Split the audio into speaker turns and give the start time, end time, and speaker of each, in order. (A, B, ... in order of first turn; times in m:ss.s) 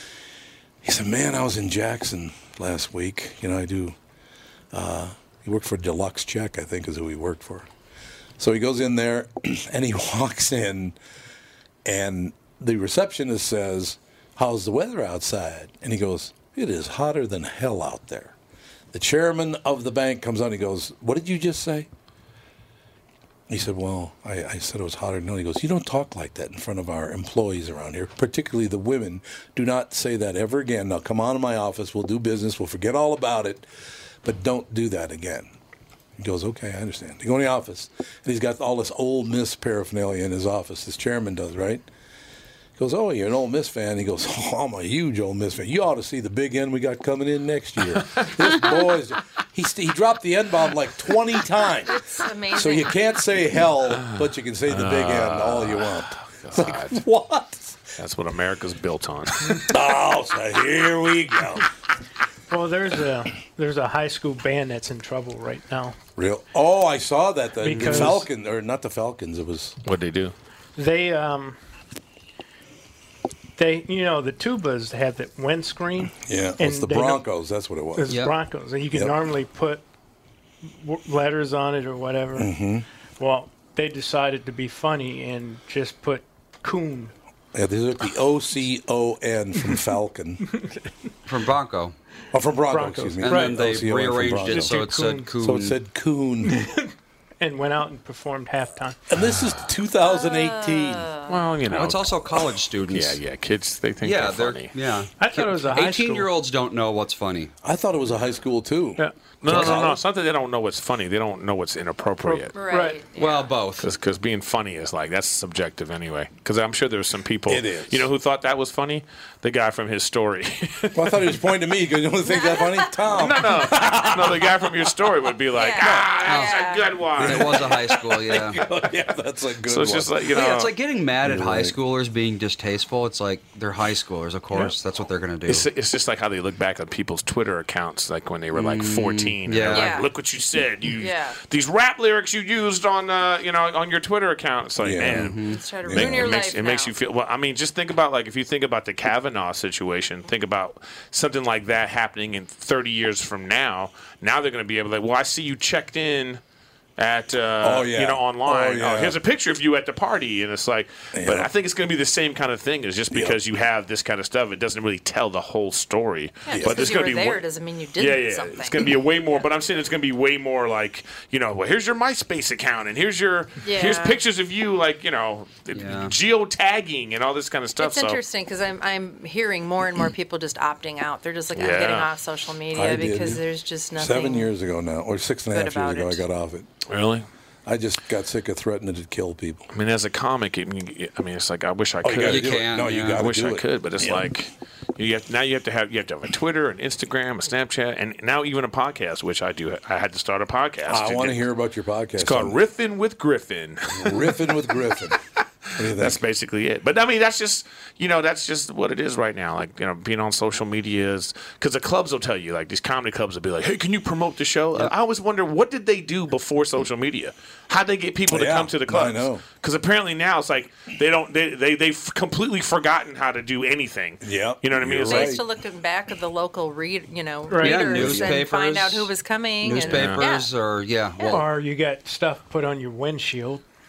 0:00.8-0:04.0 A
0:04.7-0:07.7 A
0:08.4-0:11.0 A
0:11.8-0:18.4 A
0:18.9-0:21.9 A
0:23.5-0:33.7 A
0:34.2-0:35.5 A
0:36.2-0:41.8 A
0:42.8-0:52.0 A
0:51.8-0:53.0 B
0:52.5-0:57.9 A
0:53.9-0:57.0 C
0:58.0-0:59.8 C
0:59.6-1:01.7 A
1:02.5-1:06.0 D
1:06.2-1:09.8 A
1:07.6-1:08.3 D
1:07.8-1:08.1 E
1:09.8-1:10.3 C
1:10.8-1:11.6 D
1:13.6-1:17.3 D
1:16.2-1:18.2 A
1:17.9-1:19.8 D
1:18.1-1:18.4 E
1:18.9-1:19.1 A
1:20.7-1:22.5 D
1:22.3-1:22.8 A
1:23.2-1:27.1 D
1:27.5-1:30.5 A
1:31.2-1:31.9 E
1:32.3-1:34.8 A
1:32.6-1:33.7 D
1:33.2-1:35.8 E
1:34.4-1:35.3 D
1:35.3-1:36.6 A
1:36.4-1:39.0 D
1:39.1-1:41.1 A
1:39.3-1:39.6 C
1:40.0-1:41.4 B
1:41.3-1:42.2 C
1:41.7-1:43.2 E
1:42.9-1:44.7 C
1:44.0-1:47.5 E
1:45.2-1:46.3 D
1:47.6-1:50.0 A
1:49.0-1:49.9 D
1:49.4-1:52.5 C
1:52.2-1:53.0 D
1:52.5-1:53.5 B
1:53.1-1:53.9 E
1:53.8-2:01.4 C
1:57.5-1:58.1 A
2:00.9-2:05.1 A
2:02.2-2:02.9 B
2:03.0-2:07.7 C
2:05.5-2:07.0 B
2:06.2-2:06.6 E
2:07.2-2:10.4 A
2:07.2-2:08.6 E
2:09.7-2:10.7 C
2:10.3-2:15.7 E
2:11.2-2:11.8 A
2:15.4-2:25.4 C
2:18.5-2:19.9 E
2:19.7-2:20.1 B
2:21.0-2:21.4 B
2:24.8-2:26.3 A
2:25.0-2:25.6 E
2:25.5-2:26.9 B
2:25.9-2:36.4 C
2:37.0-2:47.4 C
2:37.6-2:39.2 A
2:41.1-2:41.5 A
2:43.1-2:43.4 A
2:46.4-2:48.8 B
2:46.5-2:46.9 A
2:48.0-2:58.2 C
2:53.6-2:54.2 B
2:55.7-2:56.1 E
2:57.8-3:04.5 B
3:01.5-3:02.1 C
3:02.7-3:03.4 A
3:04.0-3:06.7 A
3:05.5-3:06.2 B
3:06.9-3:07.3 C
3:07.6-3:09.7 A
3:09.7-3:21.4 C
3:12.0-3:14.3 A
3:12.2-3:13.3 E
3:20.9-3:22.6 A
3:22.2-3:25.1 C
3:23.9-3:25.2 A
3:25.7-3:26.2 A
3:25.8-3:45.4 C
3:38.3-3:39.4 A
3:44.2-3:45.4 A
3:45.1-3:50.5 B
3:47.5-3:48.1 D
3:47.6-3:49.1 E
3:48.0-3:48.3 A
3:49.6-3:51.5 E
3:49.7-3:50.2 C
3:51.3-3:53.6 D